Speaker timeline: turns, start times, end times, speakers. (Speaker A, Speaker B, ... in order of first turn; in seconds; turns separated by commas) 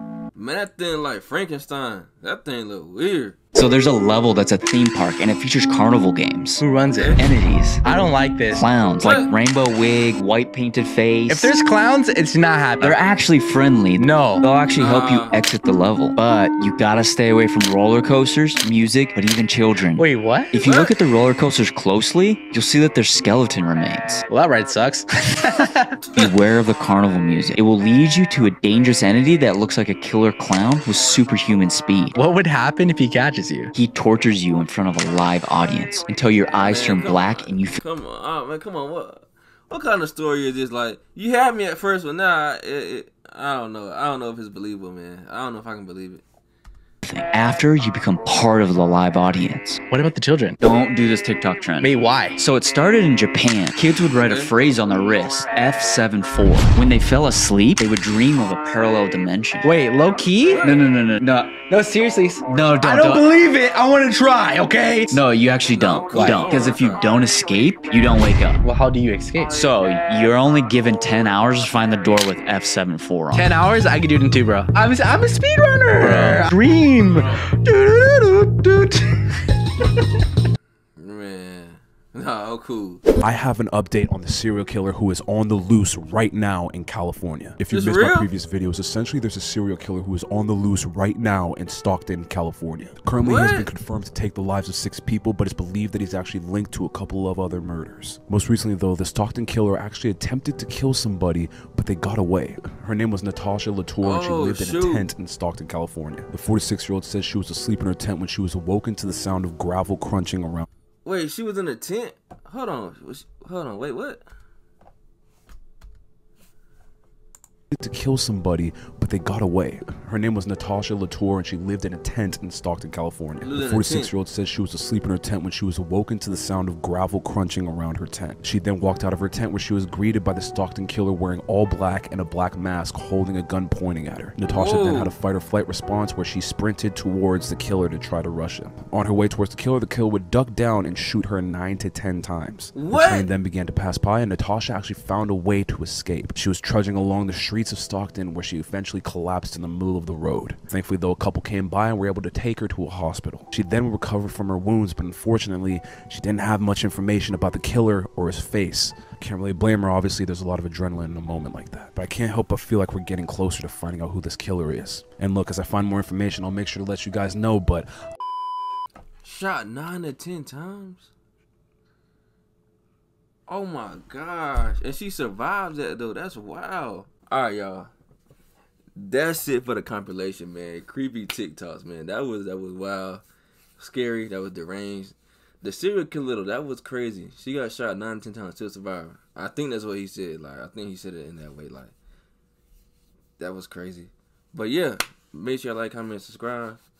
Speaker A: 0.3-3.4, Speaker B: 3.5-6.6, Speaker C: 6.6-8.7, Speaker A: 6.9-7.2, Speaker B: 7.2-7.8, Speaker B: 8.6-11.5, Speaker A: 9.0-9.3, Speaker C: 11.3-13.1, Speaker B: 12.8-24.2, Speaker C: 13.9-14.5, Speaker A: 14.8-15.3, Speaker C: 19.9-20.7, Speaker A: 20.6-20.9, Speaker C: 24.3-26.5, Speaker B: 26.4-32.1, Speaker C: 32.1-33.7, Speaker B: 33.8-37.8, Speaker A: 36.6-46.2, Speaker B: 47.0-49.8, Speaker C: 49.9-50.6, Speaker B: 50.6-59.6, Speaker C: 51.8-52.4, Speaker A: 54.2-54.5, Speaker C: 59.6-60.7, Speaker A: 60.4-60.8, Speaker B: 60.6-61.5, Speaker C: 61.6-65.3, Speaker B: 62.5-63.2, Speaker B: 65.2-68.6, Speaker A: 65.7-67.1, Speaker C: 66.1-66.7, Speaker C: 68.6-69.7, Speaker B: 69.5-73.4, Speaker C: 73.3-79.5, Speaker B: 76.0-76.4, Speaker A: 81.0-83.0, Speaker D: 83.2-110.7, Speaker A: 87.7-88.3, Speaker A: 93.2-93.7, Speaker A: 104.0-105.1, Speaker A: 111.0-114.2, Speaker D: 117.7-167.9, Speaker A: 123.4-124.1, Speaker A: 134.5-135.2, Speaker A: 142.7-143.3, Speaker A: 169.2-171.1, Speaker A: 173.5-177.9, Speaker A: 179.0-183.2, Speaker A: 183.8-191.9, Speaker A: 193.4-196.8